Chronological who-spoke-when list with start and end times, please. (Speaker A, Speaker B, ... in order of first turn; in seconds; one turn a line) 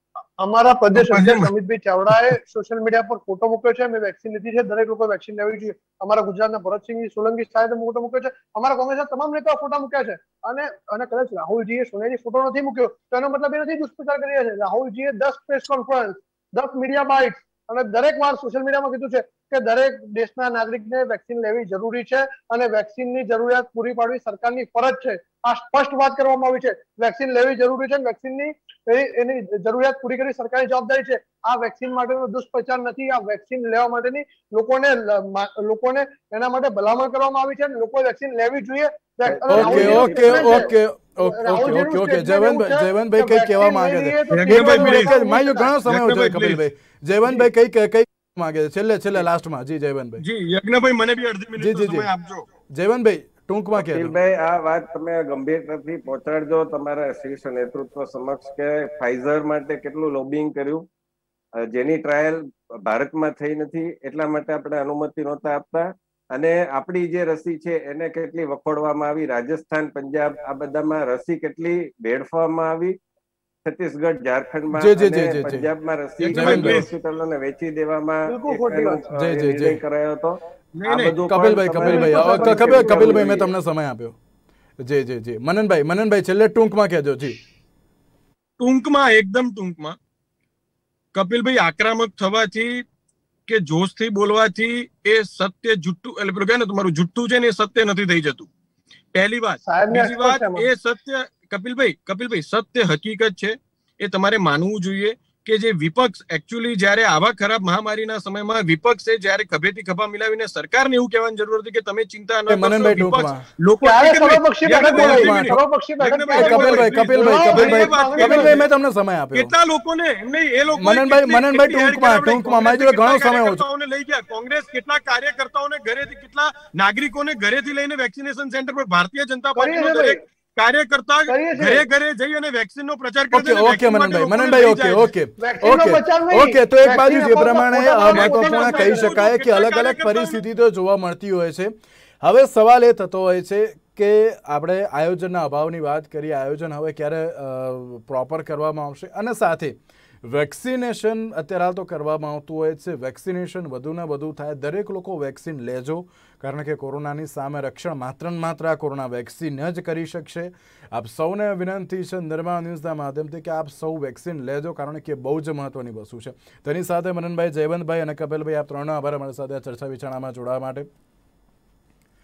Speaker A: 0.4-45.7
Speaker B: 0.9-1.5
Speaker C: 39.2-40.7
Speaker D: 39.5-50.2
Speaker B: 44.3-45.1
Speaker B: 45.9-46.6
Speaker B: 50.2-52.5
Speaker D: 51.6-52.1
Speaker D: 52.7-54.2
Speaker C: 53.8-60.9
Speaker C: 61.6-73.0
Speaker C: 73.7-83.5
Speaker D: 74.7-75.7
Speaker B: 76.2-76.9
Speaker D: 76.3-76.9
Speaker A: 78.3-79.0
Speaker D: 79.1-79.8
Speaker B: 80.8-81.2
Speaker D: 81.2-84.2
Speaker A: 81.8-83.3
Speaker D: 84.8-87.4
Speaker B: 88.6-90.0
Speaker B: 91.1-92.8
Speaker B: 93.5-98.5
Speaker B: 99.1-118.7
Speaker A: 99.6-100.7
Speaker D: 112.5-113.4
Speaker A: 113.8-118.6
Speaker D: 114.9-115.6
Speaker D: 116.3-119.5
Speaker B: 119.3-135.1
Speaker D: 120.8-123.6
Speaker A: 129.6-130.2
Speaker A: 131.3-131.9
Speaker D: 133.3-170.9
Speaker A: 135.4-139.1
Speaker B: 138.1-140.4